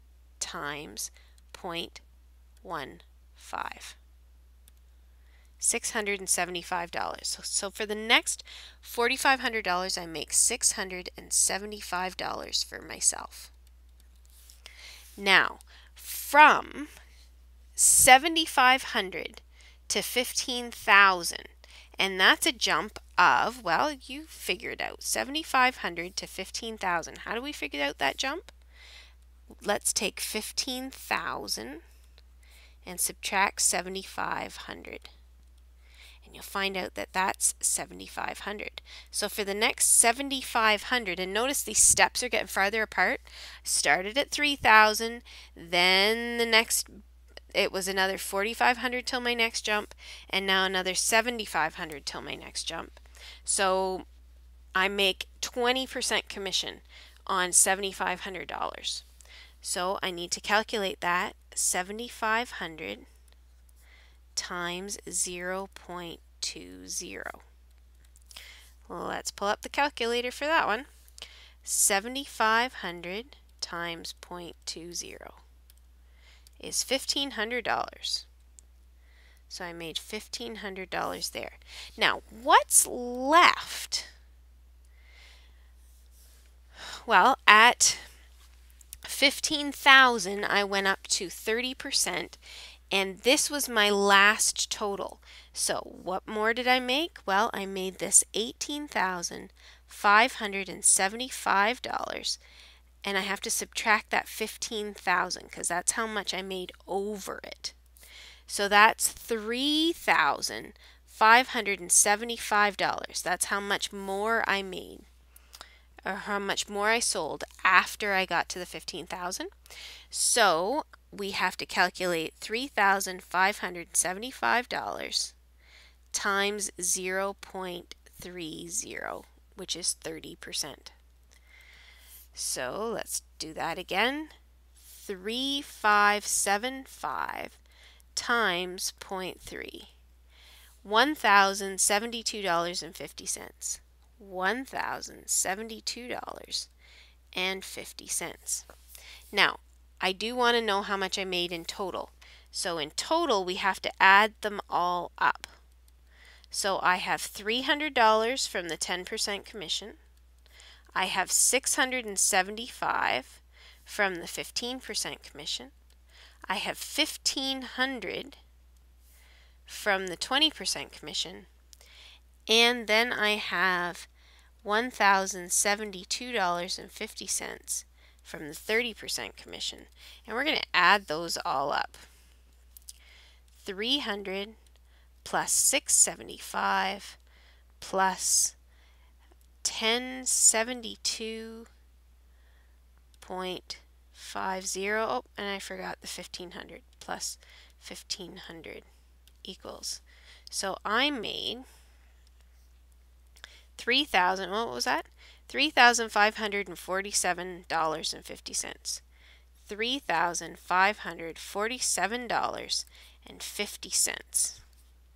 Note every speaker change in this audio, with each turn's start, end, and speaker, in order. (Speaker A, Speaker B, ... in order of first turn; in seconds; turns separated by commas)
Speaker A: 0.4-2.0, Speaker A: 2.6-4.0, Speaker A: 5.6-13.5, Speaker A: 15.2-16.9, Speaker A: 17.8-28.5, Speaker A: 29.6-31.8, Speaker A: 32.8-35.1, Speaker A: 36.2-47.0, Speaker A: 47.5-54.0, Speaker A: 54.7-59.0, Speaker A: 59.6-63.0, Speaker A: 64.3-67.4, Speaker A: 68.9-70.9, Speaker A: 71.6-75.4, Speaker A: 76.6-78.3, Speaker A: 79.5-84.1, Speaker A: 86.8-88.1, Speaker A: 89.0-92.4, Speaker A: 92.9-102.4, Speaker A: 103.0-107.7, Speaker A: 108.5-115.1, Speaker A: 116.0-119.5, Speaker A: 120.1-125.3, Speaker A: 126.1-130.9, Speaker A: 132.3-134.3, Speaker A: 134.9-137.6, Speaker A: 138.1-139.9, Speaker A: 140.8-146.7, Speaker A: 147.3-148.7, Speaker A: 149.3-155.5, Speaker A: 156.5-160.0, Speaker A: 160.9-165.7, Speaker A: 166.5-168.4, Speaker A: 169.7-171.5, Speaker A: 172.5-174.1, Speaker A: 174.6-182.0, Speaker A: 183.6-184.6, Speaker A: 185.2-187.2, Speaker A: 187.8-188.6, Speaker A: 189.6-191.7, Speaker A: 193.2-198.8, Speaker A: 199.4-201.7, Speaker A: 203.8-209.0, Speaker A: 209.7-214.6